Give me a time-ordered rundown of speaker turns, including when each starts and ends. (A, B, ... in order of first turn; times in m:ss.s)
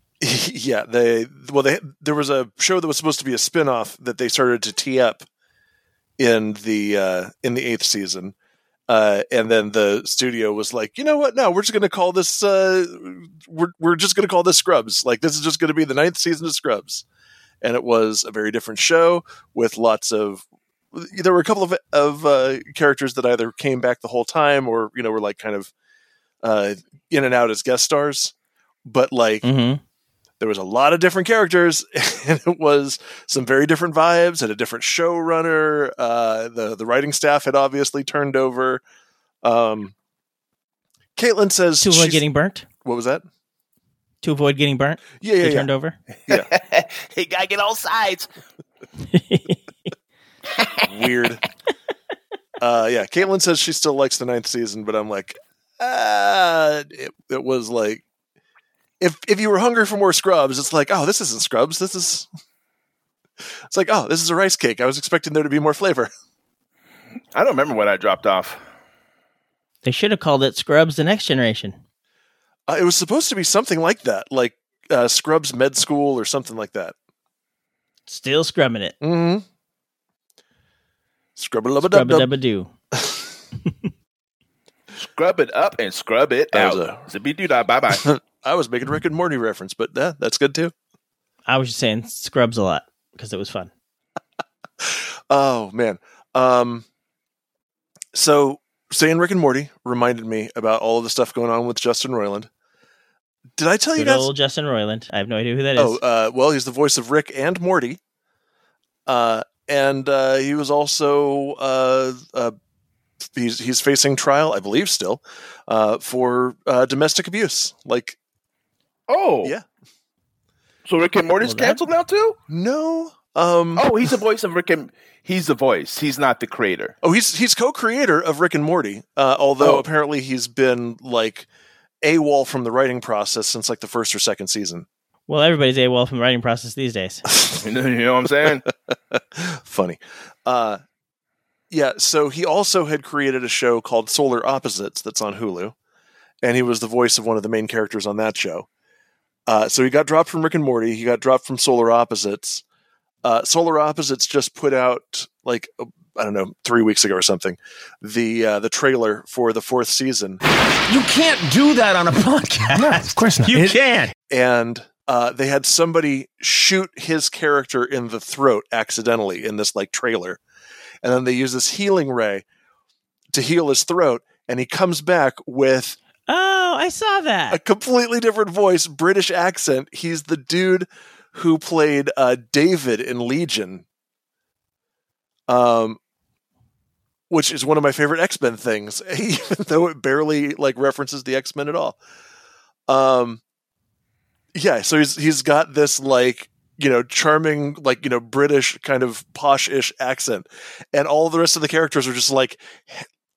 0:00.2-0:05.3 A
0:06.2-0:08.4 A
0:08.9-0:17.0 A
0:17.6-0:25.7 A
0:26.4-0:28.3 A
0:28.9-0:29.5 A
0:29.4-0:29.8 B
0:30.4-0:38.8 A
0:39.4-0:39.9 A
0:41.2-0:42.2 A
0:41.8-0:42.7 B
0:42.8-0:43.2 A
0:44.2-0:46.0 B
0:45.2-0:45.7 A
0:46.3-0:48.3 C
0:49.1-0:49.6 B
0:50.9-0:51.4 A
0:52.6-0:58.0 A
0:59.0-1:02.3 A
1:03.7-1:06.1 A
1:07.4-1:08.6 C
1:09.8-1:11.8 B
1:12.7-1:17.0 A
1:18.1-1:19.0 B
1:19.0-1:19.4 A
1:21.4-1:22.3 A
1:21.8-1:22.7 B
1:22.9-1:23.3 A
1:25.0-1:28.1 C
1:26.5-1:27.0 A
1:27.9-1:30.7 A
1:31.5-1:33.7 B
1:34.8-1:36.9 A
1:38.1-1:42.5 A
1:43.6-1:44.3 A
1:44.0-1:46.0 B
1:45.8-1:48.0 A
1:49.1-1:52.6 A
1:53.2-1:58.2 A
1:59.1-1:59.5 C
2:00.9-2:02.4 C
2:01.4-2:01.8 B
2:02.5-2:03.9 A
2:03.8-2:06.9 C
2:07.0-2:11.5 A
2:12.0-2:14.9 A
2:15.3-2:17.2 B
2:17.5-2:18.7 C
2:19.1-2:20.8 A
2:21.7-2:25.7 A
2:26.4-2:28.7 A
2:29.5-2:32.6 A
2:33.2-2:40.4 A
2:40.9-2:44.1 D
2:44.3-2:50.4 A
2:51.0-2:52.4 A
2:53.3-2:56.0 A
2:56.3-2:57.6 B
2:57.5-3:03.8 A
3:05.5-3:06.0 A
3:07.3-3:12.0 A
3:12.9-3:13.4 A
3:14.5-3:23.1 A